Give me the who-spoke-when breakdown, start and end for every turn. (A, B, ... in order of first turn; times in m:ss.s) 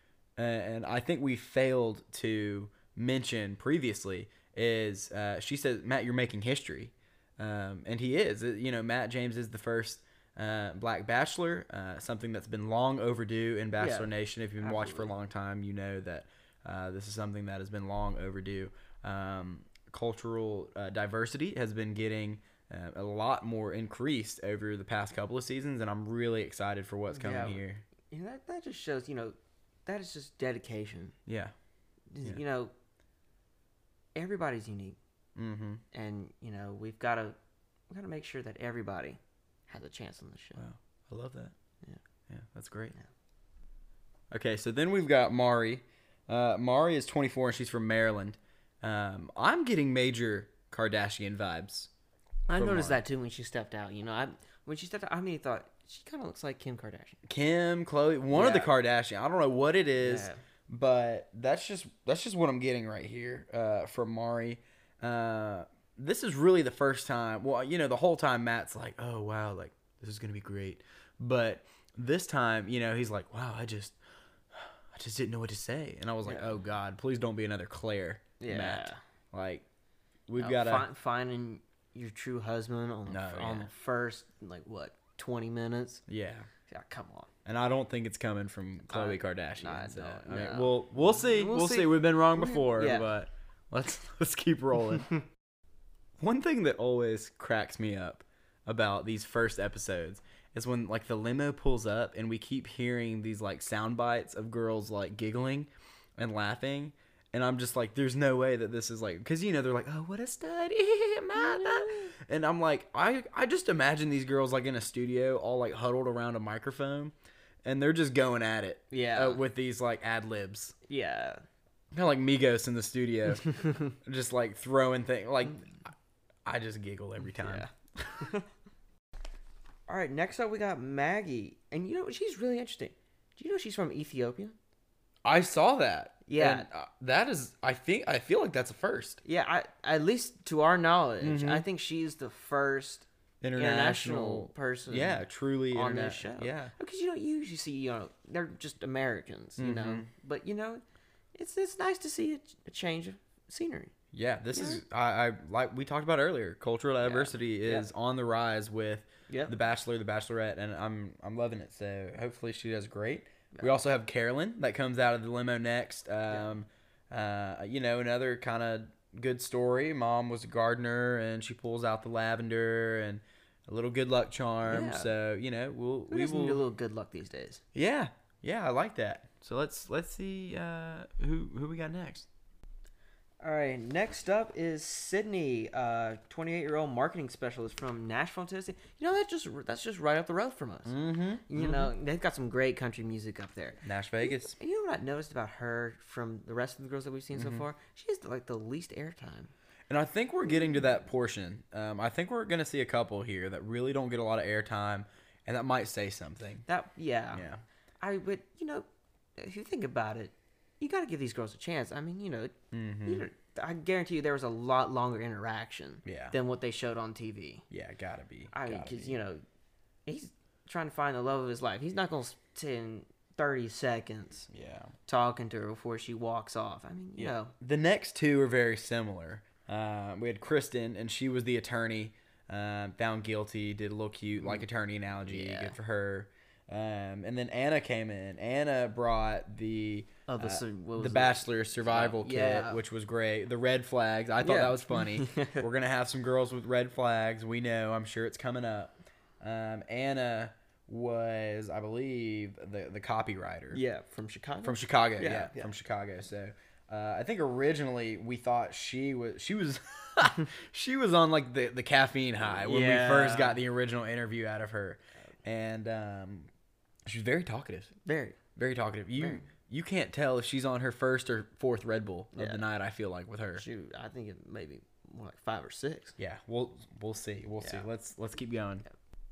0:00.4-0:27.8 A
0:13.8-0:15.1 B
0:27.1-0:29.3 B
0:29.8-0:31.2 B
0:31.3-0:31.5 A
0:32.1-0:32.7 B
0:34.1-0:35.0 B
0:35.4-0:35.8 A
0:35.9-0:37.4 B
0:37.9-0:40.6 B
0:40.6-0:41.5 A
0:42.3-0:42.9 A
0:44.3-0:51.9 A
0:52.5-0:57.2 B
0:52.5-0:53.0 A
0:57.2-1:14.0 A
0:58.3-0:58.7 B
1:00.0-1:00.4 B
1:14.5-1:19.6 A
1:16.2-1:16.6 B
1:18.4-1:19.0 B
1:20.3-1:20.9 A
1:20.4-1:26.0 B
1:23.1-1:23.7 A
1:26.1-1:26.5 A
1:26.7-1:27.3 B
1:27.4-1:35.1 A
1:28.9-1:33.1 B
1:36.2-2:00.7 A
1:51.4-1:52.1 B
1:58.9-1:59.4 B
2:00.9-2:01.4 B
2:01.9-2:05.8 A
2:03.6-2:03.9 B
2:06.4-2:08.3 A
2:07.3-2:08.4 B
2:09.9-2:14.6 B
2:15.2-2:19.2 A
2:16.2-2:16.7 B
2:19.2-2:30.8 B
2:21.2-2:21.6 A
2:23.4-2:26.7 A
2:29.6-2:30.1 A
2:31.3-2:33.9 B
2:34.1-2:56.6 A
2:34.5-2:34.8 B
2:37.0-2:37.9 B
2:39.3-2:39.5 B
2:54.6-2:55.1 B
2:56.1-2:57.6 B
2:57.7-3:02.3 A
3:03.4-3:19.5 B
3:10.8-3:11.9 A
3:13.8-3:14.6 A
3:17.3-3:17.6 A
3:19.9-3:26.6 A
3:26.7-3:27.4 B
3:27.3-3:27.6 A
3:28.0-3:28.8 B
3:29.4-3:32.5 B
3:32.7-3:33.3 A
3:33.0-3:37.6 B
3:36.0-3:36.3 A
3:37.7-3:39.2 A
3:38.5-3:39.4 B
3:40.0-3:44.5 B
3:44.5-3:44.9 A
3:45.1-3:47.5 B
3:47.2-4:13.8 A
3:55.2-3:55.8 B
4:00.3-4:02.8 B
4:04.4-4:05.6 B
4:13.7-4:15.7 B
4:14.6-4:26.5 A
4:22.4-4:23.6 B
4:27.0-4:27.9 A
4:28.0-4:28.4 B
4:28.6-4:33.6 A
4:29.2-4:29.5 B
4:32.3-4:32.6 B
4:33.6-4:36.2 B
4:36.2-4:38.8 A